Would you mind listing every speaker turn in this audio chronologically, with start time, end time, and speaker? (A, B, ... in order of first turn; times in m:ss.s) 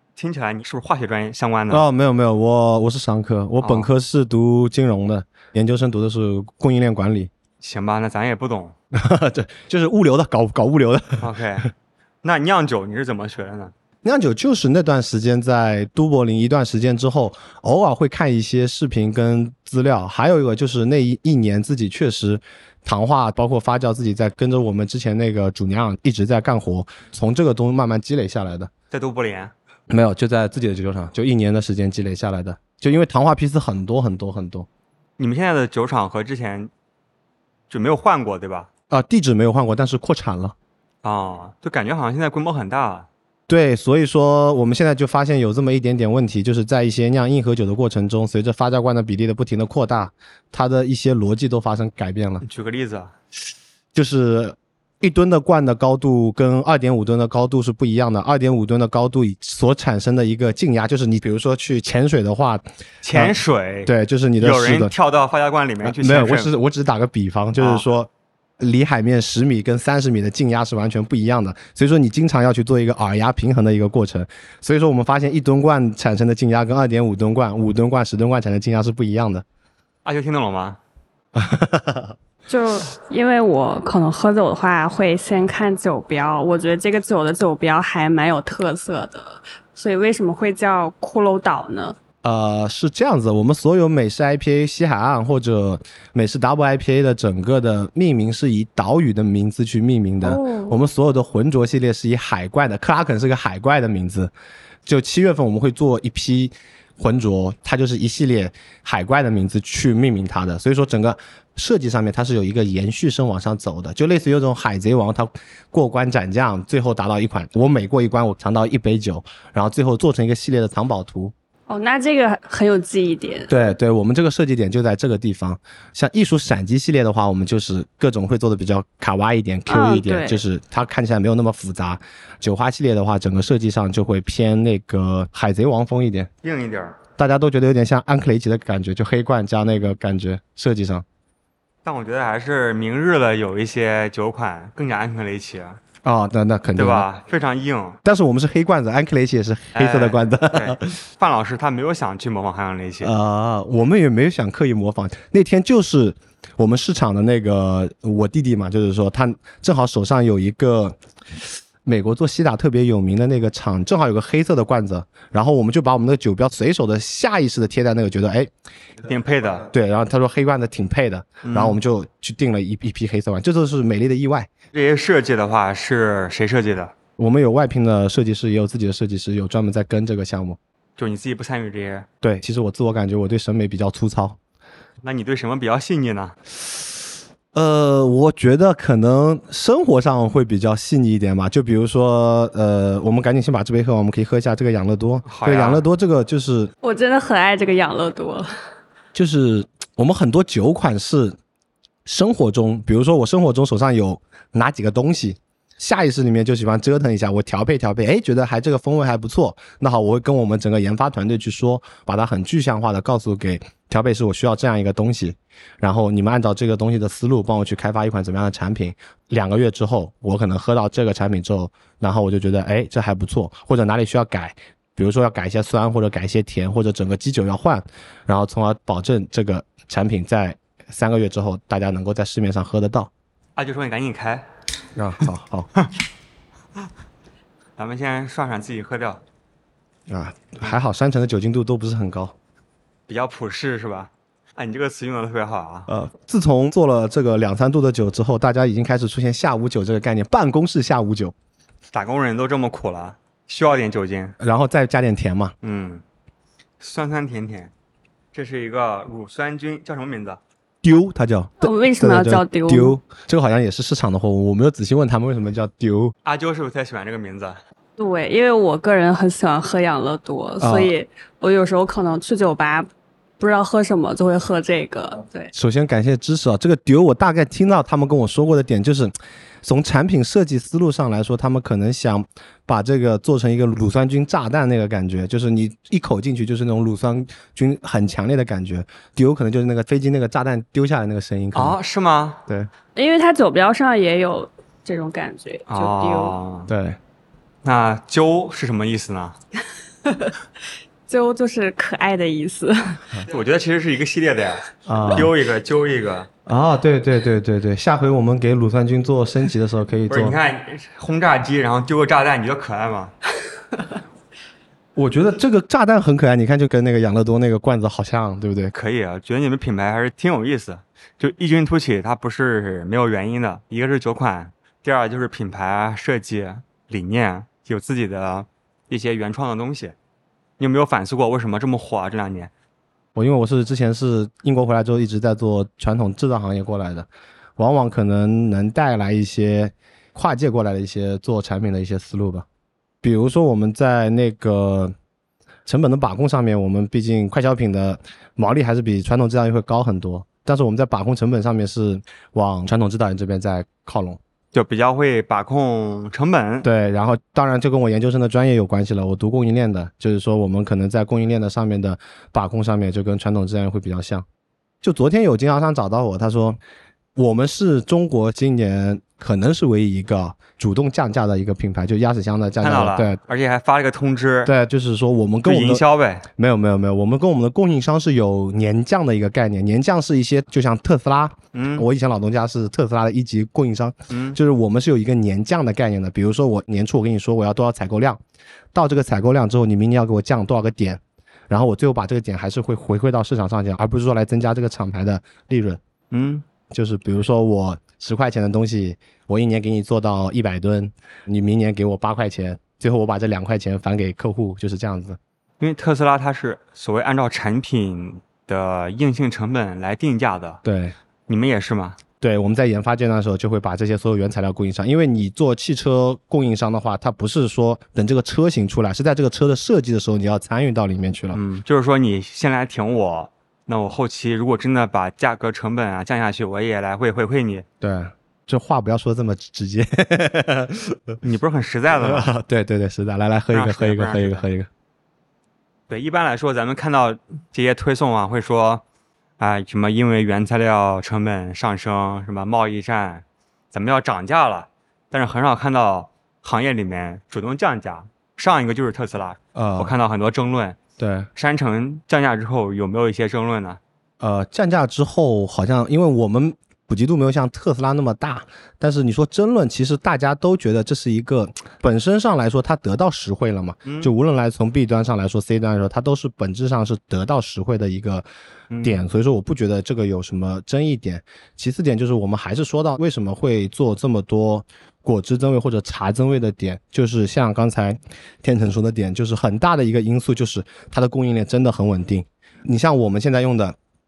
0:00.2-0:01.8 A
0:01.7-0:07.3 B
0:03.6-0:03.9 A
0:07.6-0:08.8 A
0:08.9-0:11.7 B
0:11.2-0:11.7 A
0:12.2-0:13.7 A
0:14.0-0:28.7 B
0:28.9-0:29.5 A
0:29.9-0:34.7 B
0:35.2-0:36.7 A
0:37.7-0:38.7 A
0:38.9-0:40.5 B
0:41.0-0:43.1 A
0:43.5-0:52.4 B
0:52.4-0:53.1 A
0:53.9-1:04.9 B
1:03.0-1:06.5 A
1:05.8-1:19.4 B
1:07.6-1:07.8 A
1:20.0-1:20.8 A
1:21.3-1:22.1 B
1:22.5-1:32.0 C
1:32.2-1:44.3 B
1:40.2-1:40.8 C
1:44.8-2:01.3 B
2:01.7-2:03.5 C
2:03.5-2:16.3 B
2:09.7-2:10.4 C
2:16.4-2:17.0 A
2:17.2-2:21.0 B
2:21.8-2:25.8 A
2:26.0-2:27.1 B
2:26.8-2:28.0 A
2:28.0-2:31.0 B
2:29.7-2:33.1 A
2:33.0-2:48.5 B
2:49.0-2:49.7 A
2:49.7-2:54.5 B
2:51.4-2:51.8 A
2:54.7-2:56.9 A
2:57.2-3:00.6 B
3:01.0-3:02.1 A
3:02.2-3:04.4 B
3:05.0-3:06.4 A
3:07.5-3:16.7 B
3:15.2-3:15.8 A
3:16.8-3:18.5 C
3:19.1-3:21.4 B
3:22.0-3:53.1 B
3:53.6-3:54.4 A
3:55.0-3:55.7 B
3:57.8-3:59.2 A
4:00.1-4:02.3 B
4:03.1-4:05.9 A
4:05.9-4:11.3 B
4:11.9-4:14.4 A
4:14.4-4:15.5 B
4:15.6-4:16.0 A
4:16.8-4:17.7 A
4:18.3-4:20.4 A
4:20.8-4:26.1 B
4:21.6-4:23.0 C
4:26.2-4:27.6 A
4:28.0-4:32.9 C
4:30.6-4:30.9 B
4:33.4-4:35.5 C
4:35.5-4:51.8 B
4:51.5-4:52.4 A
4:53.0-4:56.3 C
4:55.7-4:56.7 A
4:56.7-4:57.0 B
4:57.6-4:59.4 A
5:00.0-5:00.3 C
5:01.1-5:03.2 C
5:03.3-5:06.3 A
5:04.8-5:05.3 B
5:06.4-5:10.4 B
5:10.1-5:13.1 A
5:15.0-5:18.7 B
5:18.7-5:30.0 A
5:30.6-5:32.5 A
5:33.1-5:42.4 B
5:43.0-5:44.9 B
5:45.6-5:54.2 B
5:54.5-5:56.7 A
5:56.6-6:04.2 B
6:04.8-6:06.6 B
6:07.2-6:13.2 B
6:12.6-6:14.5 A
6:14.4-6:15.8 B
6:15.4-6:16.2 A
6:16.4-6:28.2 B
6:21.5-6:21.8 A
6:24.1-6:24.4 A
6:28.7-6:35.8 B
6:36.1-6:36.4 A
6:36.7-6:45.2 B
6:45.6-6:50.6 A
6:50.6-6:50.9 B
6:51.3-6:52.0 A
6:52.2-7:01.4 B
7:01.3-7:07.6 A
7:07.8-7:11.2 B
7:11.2-7:12.3 A
7:11.9-7:14.7 B
7:13.5-7:14.4 A
7:15.9-7:18.8 A
7:19.4-7:30.8 A
7:29.5-7:29.9 B
7:31.0-7:31.3 B
7:31.3-7:33.8 A
7:34.2-7:48.2 B
7:43.8-7:44.1 A
7:48.7-7:49.0 A
7:48.8-8:03.8 B